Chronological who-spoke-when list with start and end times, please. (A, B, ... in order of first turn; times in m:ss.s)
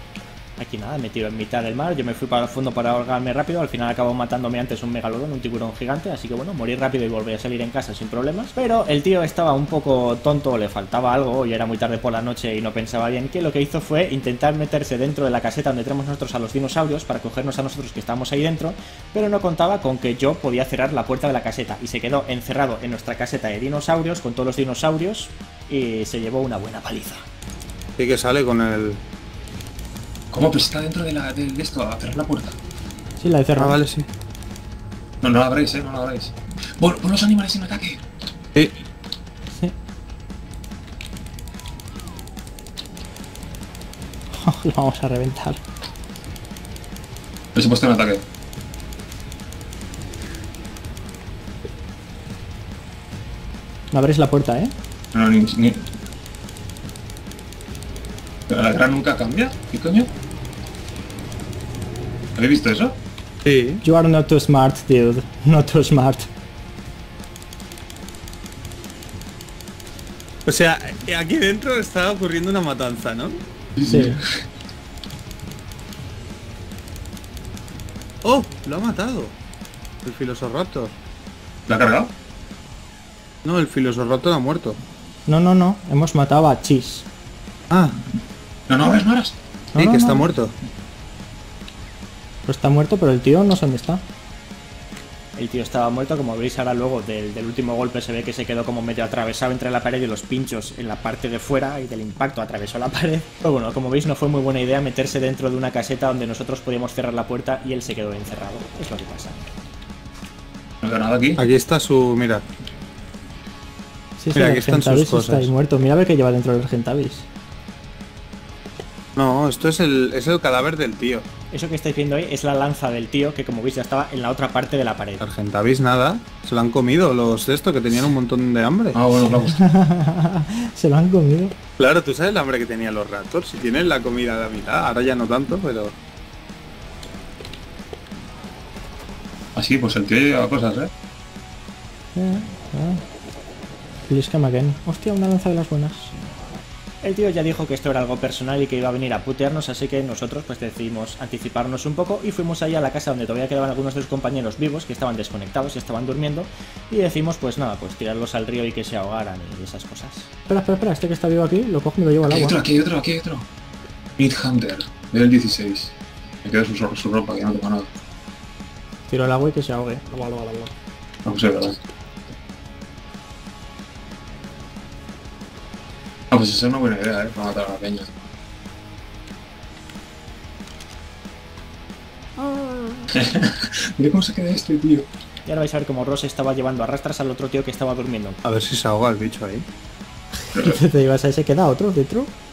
0:00.6-0:27.2 A
0:28.0-0:29.0 B
0:30.3-0:32.6 C
0:33.2-0:33.8 A
0:33.6-0:34.0 B
0:35.2-0:38.0 C
0:44.4-0:45.6 A
0:47.5-0:48.2 C
0:53.9-0:54.7 A
0:55.1-0:55.8 C
0:58.5-1:00.1 C
1:02.4-1:03.0 C
1:03.4-1:03.8 B
1:03.8-1:06.3 A
1:10.4-1:13.4 B
1:13.8-1:14.2 C
1:13.8-1:14.2 A
1:18.2-1:19.3 B
1:20.0-1:20.9 B
1:21.7-1:22.1 C
1:23.4-1:24.8 B
1:25.3-1:27.0 A
1:27.7-1:27.9 B
1:28.7-1:29.4 C
1:29.7-1:30.2 A
1:29.8-1:30.5 B
1:32.4-1:34.0 A
1:35.4-1:49.4 A
1:50.8-1:51.4 C
1:51.4-1:52.4 B
1:54.2-1:57.2 A
1:54.3-1:55.5 B
1:59.2-2:01.3 B
2:01.5-2:05.2 A
2:05.2-2:09.0 B
2:08.9-2:09.6 C
2:09.4-2:11.5 A
2:11.8-2:15.9 B
2:19.5-2:20.9 C
2:22.1-2:23.0 A
2:24.1-2:26.1 A
2:27.0-2:42.6 A
2:42.2-2:43.5 C
2:44.2-2:47.9 C
2:49.1-2:50.7 A
2:51.2-2:51.8 C
2:56.3-2:58.1 C
3:03.1-3:05.1 C
3:05.4-3:08.4 A
3:08.4-3:09.6 B
3:10.5-3:10.8 C
3:10.5-3:12.3 A